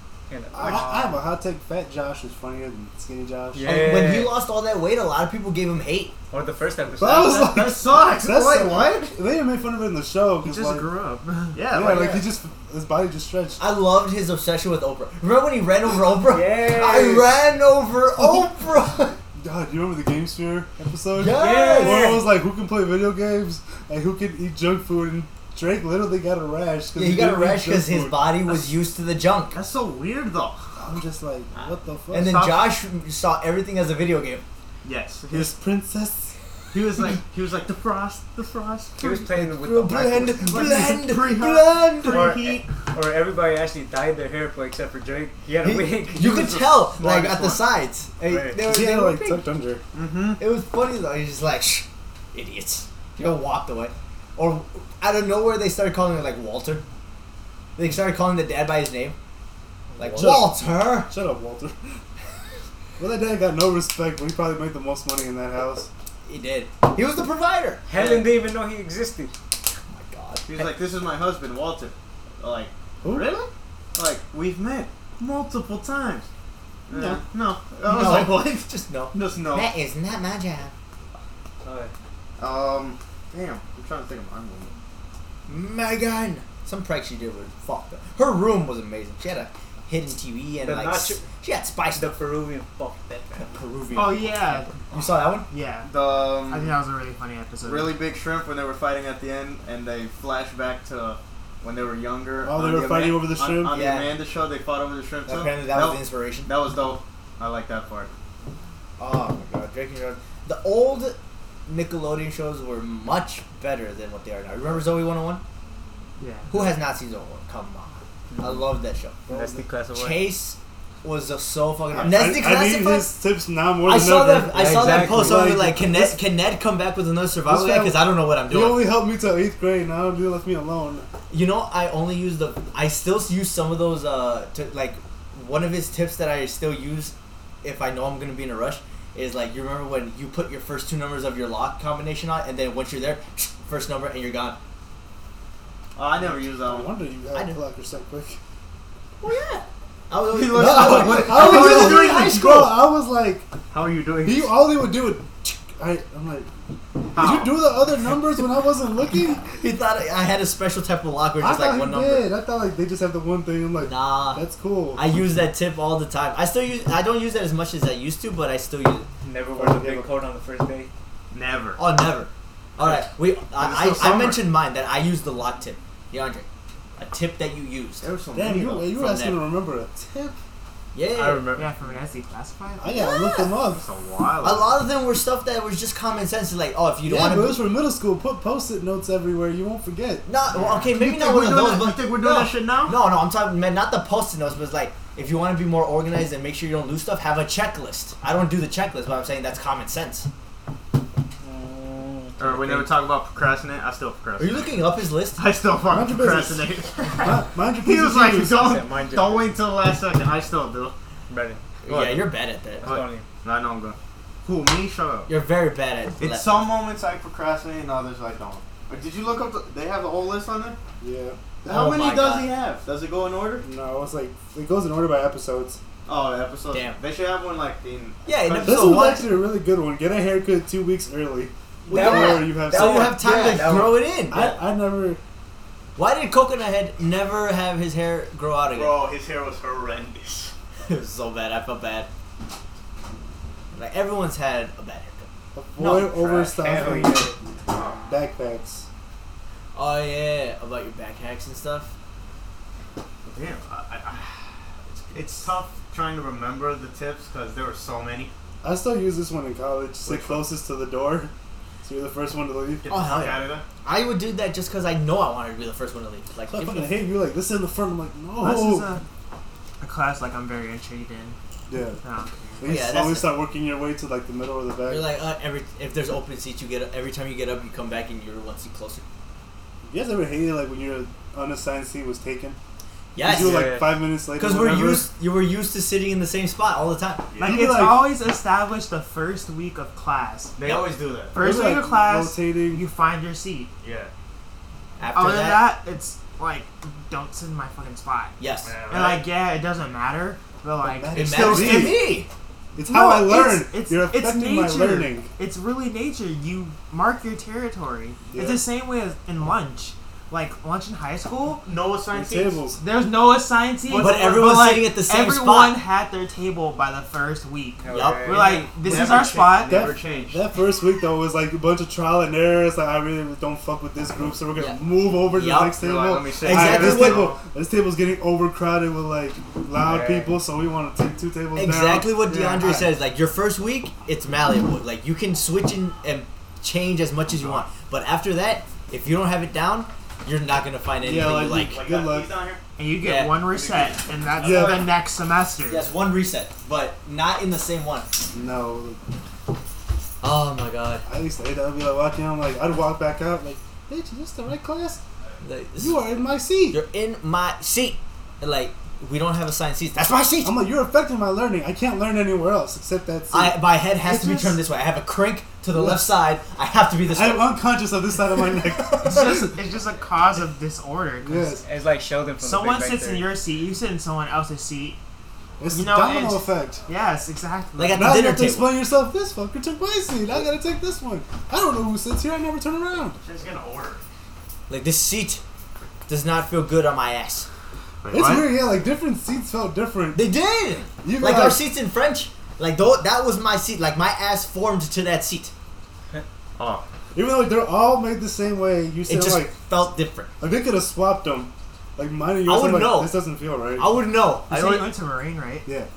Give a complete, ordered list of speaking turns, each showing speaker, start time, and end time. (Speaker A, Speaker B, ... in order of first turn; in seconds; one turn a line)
Speaker A: 0.3-1.0
Speaker B: 0.5-3.9
Speaker C: 0.6-0.9
Speaker A: 3.5-4.3
Speaker D: 3.6-6.1
Speaker A: 6.3-7.5
Speaker B: 7.0-10.9
Speaker C: 7.3-9.2
Speaker E: 10.4-11.6
Speaker A: 10.6-10.8
Speaker C: 11.5-12.2
Speaker B: 11.7-13.6
Speaker D: 13.6-19.2
Speaker A: 16.2-17.3
Speaker B: 18.2-18.5
Speaker B: 19.3-28.3
Speaker D: 21.1-22.2
Speaker A: 21.2-22.3
Speaker D: 26.9-29.6
Speaker C: 29.5-30.6
Speaker B: 30.8-32.4
Speaker D: 31.5-34.4
Speaker C: 32.2-32.7
Speaker C: 34.8-35.5
Speaker B: 35.3-36.3
Speaker C: 36.7-39.3
Speaker A: 39.0-40.5
Speaker D: 39.3-42.3
Speaker C: 40.5-42.7
Speaker A: 42.0-46.3
Speaker D: 45.6-49.4
Speaker C: 46.1-47.6
Speaker A: 48.2-48.6
Speaker B: 48.5-49.8
Speaker C: 49.9-50.4
Speaker D: 50.4-56.8
Speaker D: 57.8-59.1
Speaker A: 59.9-60.4
Speaker D: 60.0-61.1
Speaker B: 60.2-61.9
Speaker B: 63.0-65.9
Speaker D: 66.2-67.8
Speaker A: 67.8-69.3
Speaker C: 67.9-68.3
Speaker D: 69.9-70.4
Speaker C: 70.5-76.3
Speaker B: 73.0-73.3
Speaker C: 76.9-79.7
Speaker D: 77.8-80.7
Speaker A: 81.6-81.9
Speaker C: 82.4-84.7
Speaker D: 85.5-92.1
Speaker A: 90.6-91.3
Speaker A: 91.9-93.5
Speaker D: 93.3-95.5
Speaker E: 93.9-94.8
Speaker E: 95.5-98.0
Speaker C: 95.8-96.7
Speaker C: 97.6-108.1
Speaker B: 102.4-103.8
Speaker D: 103.7-104.2
Speaker D: 105.3-106.5
Speaker D: 109.0-115.4
Speaker E: 116.2-116.7
Speaker D: 116.5-119.2
Speaker A: 118.3-118.6
Speaker B: 119.3-119.8
Speaker A: 119.3-120.3
Speaker D: 119.9-123.1
Speaker B: 121.9-126.2
Speaker D: 123.8-128.9
Speaker A: 124.4-125.5
Speaker B: 127.4-131.1
Speaker D: 131.3-144.6
Speaker C: 145.9-146.9
Speaker B: 146.2-148.4
Speaker D: 149.2-152.7
Speaker C: 150.3-152.7
Speaker B: 150.5-153.5
Speaker C: 153.7-154.5
Speaker B: 154.2-156.5
Speaker C: 157.1-157.6
Speaker B: 157.1-159.4
Speaker D: 159.4-162.3
Speaker B: 161.4-165.1
Speaker D: 163.8-164.4
Speaker D: 164.9-169.1
Speaker A: 169.2-170.9
Speaker B: 169.5-170.1
Speaker C: 171.3-171.8
Speaker D: 171.8-176.4
Speaker C: 172.8-174.4
Speaker D: 177.0-178.0
Speaker C: 178.0-178.9
Speaker B: 178.3-180.4
Speaker D: 178.9-179.4
Speaker D: 180.9-181.5
Speaker C: 181.1-181.7
Speaker E: 181.6-183.0
Speaker B: 182.8-183.8
Speaker D: 182.9-183.6
Speaker C: 183.7-184.8
Speaker D: 184.4-187.6
Speaker B: 187.0-190.3
Speaker D: 190.2-200.3
Speaker E: 190.5-190.9
Speaker C: 190.9-193.0
Speaker A: 201.4-202.8
Speaker C: 202.4-204.8
Speaker D: 204.4-205.4
Speaker C: 205.3-210.9
Speaker B: 205.9-208.6
Speaker A: 208.6-209.5
Speaker A: 211.3-211.6
Speaker D: 211.8-212.9
Speaker C: 211.9-212.3
Speaker A: 212.8-213.2
Speaker C: 212.8-215.3
Speaker D: 215.3-216.7
Speaker C: 216.2-220.8
Speaker B: 221.0-221.4
Speaker D: 221.6-222.5
Speaker C: 221.6-223.7
Speaker B: 223.6-225.8
Speaker C: 226.1-229.2
Speaker D: 226.7-227.0
Speaker D: 228.2-229.3
Speaker B: 228.6-235.2
Speaker D: 231.9-234.5
Speaker A: 231.9-232.6
Speaker C: 232.6-234.6
Speaker D: 235.9-239.0
Speaker C: 238.7-240.5
Speaker D: 240.8-242.1
Speaker D: 243.7-245.3
Speaker B: 245.5-247.3
Speaker D: 245.8-246.1
Speaker C: 245.8-247.0
Speaker A: 246.5-247.3
Speaker B: 247.9-248.8
Speaker D: 249.7-251.9
Speaker C: 253.2-254.3
Speaker C: 254.9-258.3
Speaker B: 258.6-261.3
Speaker C: 260.0-260.5
Speaker B: 261.8-262.9
Speaker C: 262.8-263.6
Speaker D: 262.9-267.0
Speaker B: 266.5-268.9
Speaker E: 268.4-269.0
Speaker E: 269.8-271.4
Speaker B: 271.7-272.0
Speaker E: 272.0-272.7
Speaker B: 272.6-275.1
Speaker D: 272.6-273.4
Speaker D: 274.8-279.0
Speaker B: 279.9-282.6
Speaker D: 283.1-283.8
Speaker B: 283.2-285.1
Speaker A: 283.4-284.0
Speaker D: 284.3-287.3
Speaker C: 287.3-287.6
Speaker B: 287.4-288.1
Speaker E: 287.4-290.5
Speaker C: 290.6-291.3
Speaker D: 290.6-290.9
Speaker E: 291.3-293.7
Speaker B: 291.4-292.8
Speaker C: 293.8-294.1
Speaker D: 295.0-295.6
Speaker E: 295.1-298.4
Speaker D: 298.4-298.7
Speaker C: 298.6-299.2
Speaker E: 298.9-301.7
Speaker B: 300.8-302.0
Speaker D: 301.1-302.3
Speaker C: 301.2-302.1
Speaker B: 302.7-305.3
Speaker E: 302.8-311.6
Speaker B: 308.3-308.6
Speaker C: 311.6-312.6
Speaker B: 312.1-312.8
Speaker E: 312.8-319.9
Speaker D: 313.9-315.8
Speaker A: 317.8-318.6
Speaker D: 317.9-318.7
Speaker C: 318.4-320.4
Speaker B: 318.9-332.9
Speaker D: 324.6-325.8
Speaker C: 325.8-327.3
Speaker D: 326.4-327.3
Speaker A: 329.8-330.4
Speaker D: 331.5-341.8
Speaker C: 337.3-337.6
Speaker B: 341.0-342.3
Speaker C: 341.5-342.6
Speaker E: 342.8-345.9
Speaker D: 343.0-343.4
Speaker C: 343.5-344.8
Speaker B: 344.4-344.9
Speaker D: 345.7-348.1
Speaker B: 348.3-349.0
Speaker D: 350.2-351.1
Speaker B: 351.1-355.0
Speaker D: 355.4-356.0
Speaker B: 355.8-356.8
Speaker D: 356.7-360.6
Speaker B: 360.4-364.6
Speaker D: 363.3-367.6
Speaker B: 365.7-366.1
Speaker B: 367.1-369.6
Speaker D: 368.5-369.5
Speaker E: 369.1-371.6
Speaker B: 371.2-371.6
Speaker A: 371.6-373.3
Speaker E: 372.4-375.0
Speaker B: 375.6-376.8
Speaker E: 375.7-378.1
Speaker D: 377.8-378.8
Speaker B: 377.9-383.2
Speaker C: 383.2-384.0
Speaker D: 384.7-385.4
Speaker D: 386.1-387.5
Speaker C: 388.0-388.6
Speaker B: 388.1-390.2
Speaker D: 390.1-395.5
Speaker B: 391.0-391.6
Speaker C: 396.6-396.8
Speaker B: 397.1-399.6
Speaker D: 399.1-400.3
Speaker B: 400.4-403.9
Speaker D: 402.4-403.1
Speaker D: 403.7-404.9
Speaker E: 404.5-405.7